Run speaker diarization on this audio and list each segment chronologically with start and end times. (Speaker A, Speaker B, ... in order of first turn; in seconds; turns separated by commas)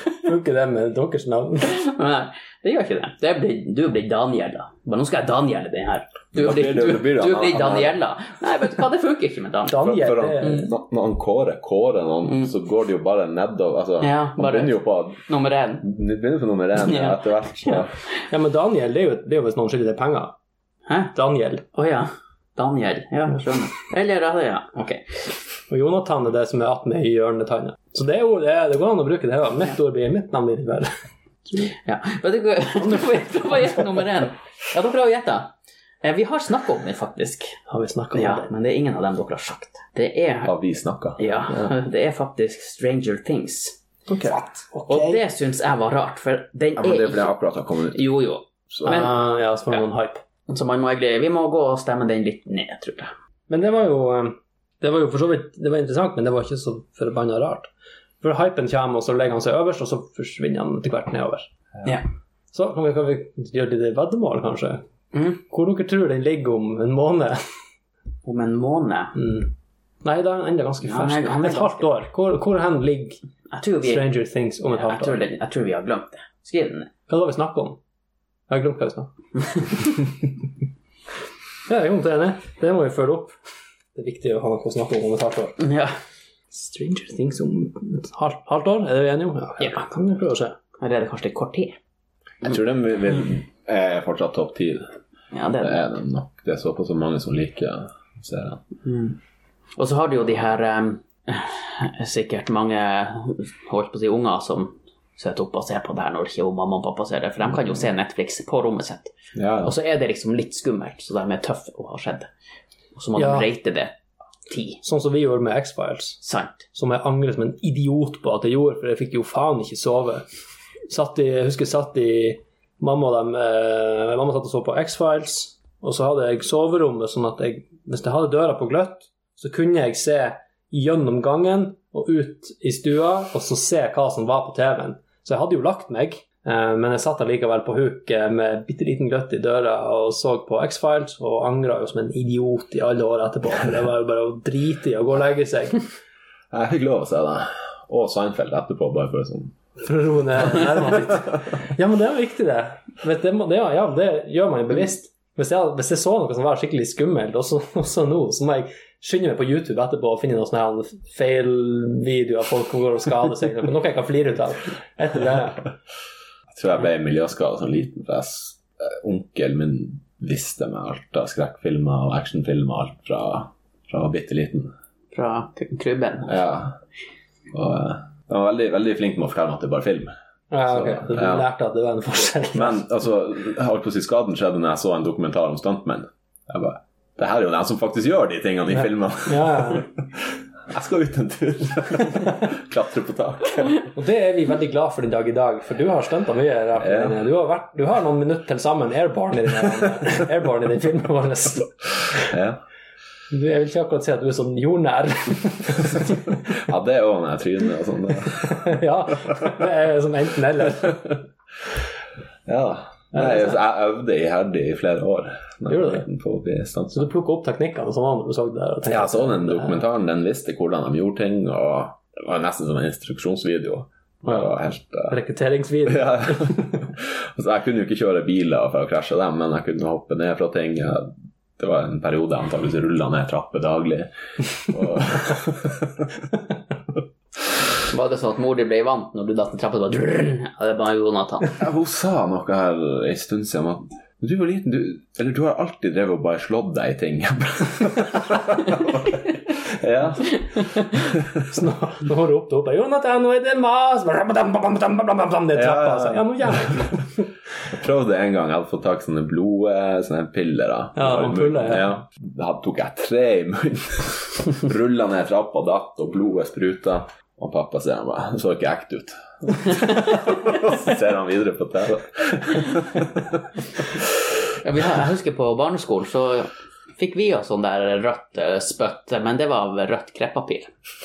Speaker A: 0.1-1.7, Speaker B: 1.6-10.6, Speaker C: 6.3-8.0, Speaker A: 9.7-10.7, Speaker C: 9.8-15.2, Speaker B: 12.3-12.5, Speaker B: 14.0-15.9, Speaker C: 15.8-17.9, Speaker B: 16.8-17.9, Speaker A: 18.3-20.3, Speaker B: 20.9-21.1, Speaker A: 21.1-21.6, Speaker B: 21.7-25.2, Speaker A: 25.7-30.9, Speaker B: 31.7-37.6, Speaker A: 37.7-38.5, Speaker B: 38.1-40.5, Speaker C: 40.4-41.7, Speaker B: 41.2-43.8, Speaker A: 44.1-45.2, Speaker B: 44.3-47.3, Speaker C: 46.8-48.0, Speaker B: 47.9-49.1, Speaker C: 48.7-49.0, Speaker A: 48.8-50.2, Speaker B: 50.5-53.1, Speaker A: 53.5-57.7, Speaker A: 58.2-61.5, Speaker A: 62.5-64.8, Speaker B: 65.1-65.4, Speaker A: 65.4-67.4, Speaker B: 68.2-69.1, Speaker A: 69.2-69.5, Speaker A: 70.0-73.2, Speaker B: 70.8-71.9, Speaker B: 73.5-74.1, Speaker A: 73.8-75.2, Speaker B: 74.7-76.9, Speaker A: 77.1-77.8, Speaker A: 78.5-80.0, Speaker A: 81.7-83.3, Speaker A: 83.9-85.6, Speaker B: 85.6-85.9, Speaker A: 86.5-90.6, Speaker B: 90.8-91.8, Speaker C: 92.4-94.9, Speaker B: 95.3-96.0, Speaker C: 95.6-98.6, Speaker B: 98.8-99.2, Speaker B: 99.8-112.3, Speaker C: 109.3-109.7, Speaker B: 112.9-114.8, Speaker A: 113.2-113.5, Speaker A: 114.8-116.2, Speaker B: 116.2-116.7, Speaker A: 116.7-120.2, Speaker A: 120.9-145.9, Speaker C: 146.5-149.5, Speaker A: 149.8-165.7, Speaker C: 166.5-174.7, Speaker B: 175.1-176.4, Speaker C: 176.2-176.8, Speaker C: 177.5-180.1, Speaker A: 180.5-182.9, Speaker C: 180.7-181.4, Speaker C: 182.5-189.8, Speaker A: 189.2-189.9, Speaker C: 190.7-193.9, Speaker A: 193.9-202.3, Speaker C: 196.8-197.2, Speaker C: 202.1-202.6, Speaker A: 203.3-206.4, Speaker C: 206.5-209.3, Speaker A: 208.4-211.2, Speaker C: 212.4-217.1, Speaker A: 213.1-213.6, Speaker A: 215.7-216.0, Speaker A: 216.9-219.8, Speaker C: 218.8-225.2, Speaker A: 224.3-224.5, Speaker A: 225.1-226.9, Speaker C: 225.9-236.1, Speaker B: 237.9-241.6, Speaker C: 241.6-251.4, Speaker B: 250.5-250.9, Speaker A: 251.4-257.3, Speaker C: 255.5-257.0, Speaker C: 257.7-273.4, Speaker A: 260.9-262.0, Speaker B: 274.6-280.7